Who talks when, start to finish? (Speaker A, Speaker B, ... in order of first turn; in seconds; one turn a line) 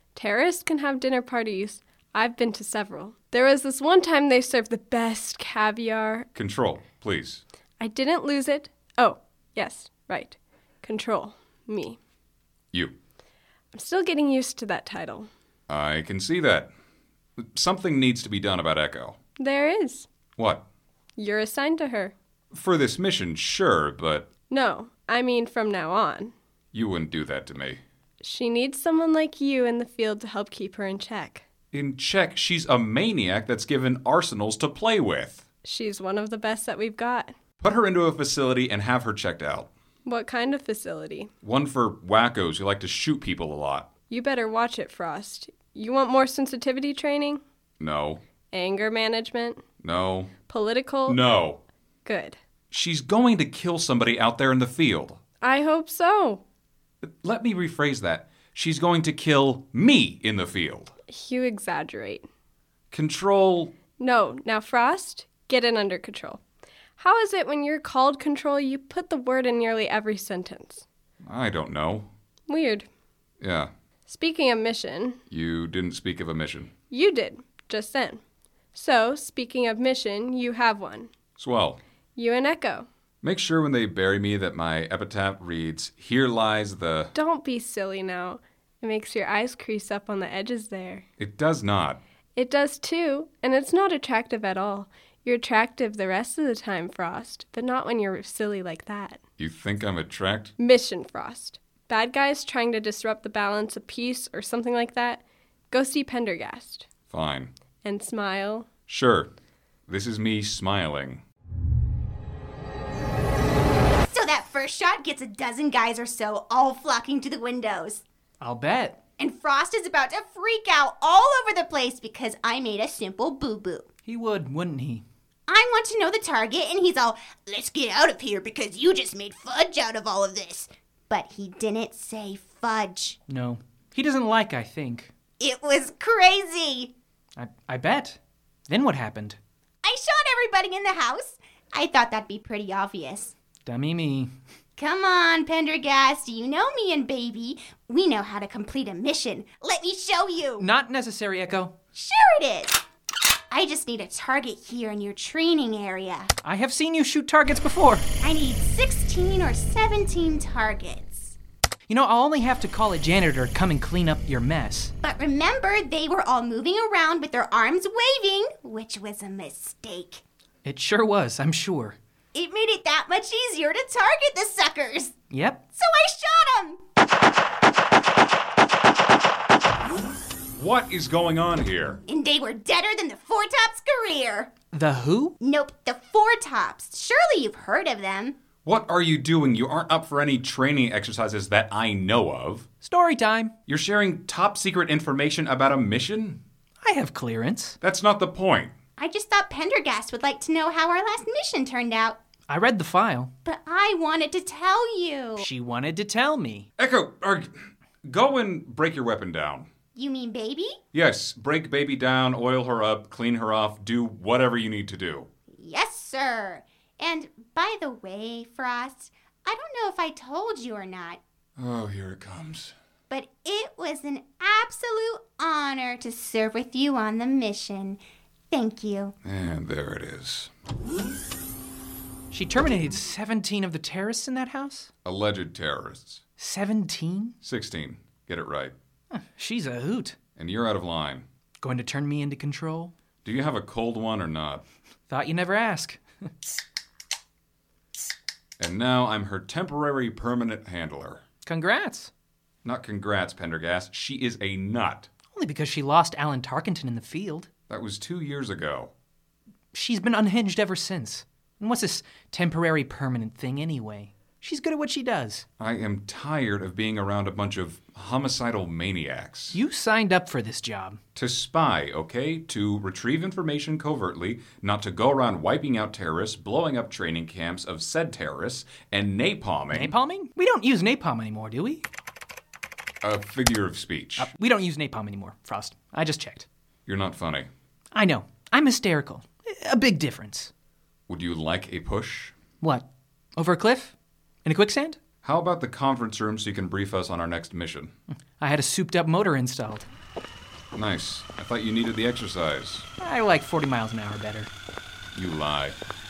Speaker A: 0.1-6.2
Speaker B: 6.3-7.4
Speaker A: 7.8-12.0
Speaker A: 13.7-15.3
Speaker B: 15.7-16.7
Speaker B: 17.4-19.2
Speaker A: 19.4-20.1
Speaker B: 20.4-20.6
Speaker A: 21.2-22.1
Speaker B: 22.5-24.3
Speaker A: 24.5-26.3
Speaker B: 26.7-27.8
Speaker A: 28.2-31.4
Speaker B: 31.7-35.4
Speaker A: 35.6-37.3
Speaker B: 37.6-39.7
Speaker A: 40.0-41.3
Speaker B: 41.4-43.9
Speaker A: 44.1-47.4
Speaker B: 47.8-48.2
Speaker A: 48.5-49.6
Speaker B: 49.8-50.3
Speaker A: 50.5-51.2
Speaker B: 51.1-51.6
Speaker A: 52.0-52.4
Speaker B: 52.7-55.2
Speaker A: 55.4-56.4
Speaker B: 57.0-60.9
Speaker A: 61.1-62.2
Speaker B: 62.9-63.7
Speaker A: 64.0-66.4
Speaker A: 67.0-70.8
Speaker B: 71.2-72.1
Speaker A: 72.5-72.8
Speaker B: 73.4-73.7
Speaker A: 74.1-75.2
Speaker B: 75.3-76.7
Speaker A: 76.9-78.2
Speaker A: 78.7-81.1
Speaker B: 81.4-81.8
Speaker A: 82.2-82.9
Speaker B: 83.2-87.1
Speaker A: 87.1-91.0
Speaker B: 91.2-92.0
Speaker A: 92.3-99.2
Speaker B: 99.4-100.5
Speaker A: 100.6-106.8
Speaker B: 107.1-107.5
Speaker A: 107.8-108.7
Speaker B: 108.9-109.3
Speaker B: 109.9-111.2
Speaker C: 114.0-118.0
Speaker D: 118.4-119.0
Speaker C: 119.2-123.9
Speaker D: 124.0-125.0
Speaker C: 125.5-133.2
Speaker D: 133.3-135.1
Speaker C: 135.4-136.9
Speaker D: 137.4-139.4
Speaker C: 139.8-143.3
Speaker D: 143.7-144.3
Speaker C: 144.8-150.7
Speaker D: 150.6-151.7
Speaker C: 151.9-152.8
Speaker C: 153.5-156.3
Speaker D: 156.4-158.1
Speaker C: 158.2-161.4
Speaker D: 161.9-164.9
Speaker C: 165.0-170.2
Speaker D: 170.6-172.0
Speaker C: 172.3-175.2
Speaker D: 175.3-175.6
Speaker C: 175.8-176.8
Speaker B: 180.6-182.0
Speaker C: 182.1-184.5
Speaker D: 184.7-185.3
Speaker C: 185.4-188.3
Speaker B: 188.6-192.7
Speaker D: 192.8-193.5
Speaker B: 193.7-196.4
Speaker D: 196.8-197.8
Speaker B: 197.8-198.7
Speaker C: 199.0-202.2
Speaker D: 202.5-203.3
Speaker C: 203.4-205.5
Speaker D: 205.4-206.7
Speaker B: 206.8-207.5
Speaker B: 208.0-209.7
Speaker C: 209.9-210.8
Speaker B: 210.9-215.3
Speaker C: 215.5-221.2
Speaker B: 221.6-222.7
Speaker C: 223.1-228.0
Speaker C: 228.5-229.1
Speaker B: 229.2-230.5
Speaker D: 232.3-234.9
Speaker B: 235.0-236.2
Speaker D: 236.4-237.3
Speaker B: 237.4-238.7
Speaker D: 239.1-240.2
Speaker B: 240.4-241.2
Speaker D: 241.6-242.9
Speaker B: 243.2-244.6
Speaker D: 245.1-246.0
Speaker B: 248.6-251.2
Speaker D: 251.4-252.1
Speaker B: 252.6-255.1
Speaker D: 255.3-257.5
Speaker B: 257.7-258.9
Speaker D: 259.7-265.4
Speaker B: 265.6-269.6
Speaker D: 269.5-271.0
Speaker B: 271.1-279.9
Speaker D: 279.7-281.8
Speaker B: 283.0-284.3
Speaker D: 284.2-286.5
Speaker B: 286.9-287.5
Speaker D: 287.9-290.5
Speaker B: 291.1-292.3
Speaker D: 292.6-293.9
Speaker D: 294.4-295.0
Speaker B: 295.2-297.9
Speaker D: 298.4-299.9
Speaker B: 300.7-302.9
Speaker D: 303.0-304.5
Speaker B: 305.1-305.8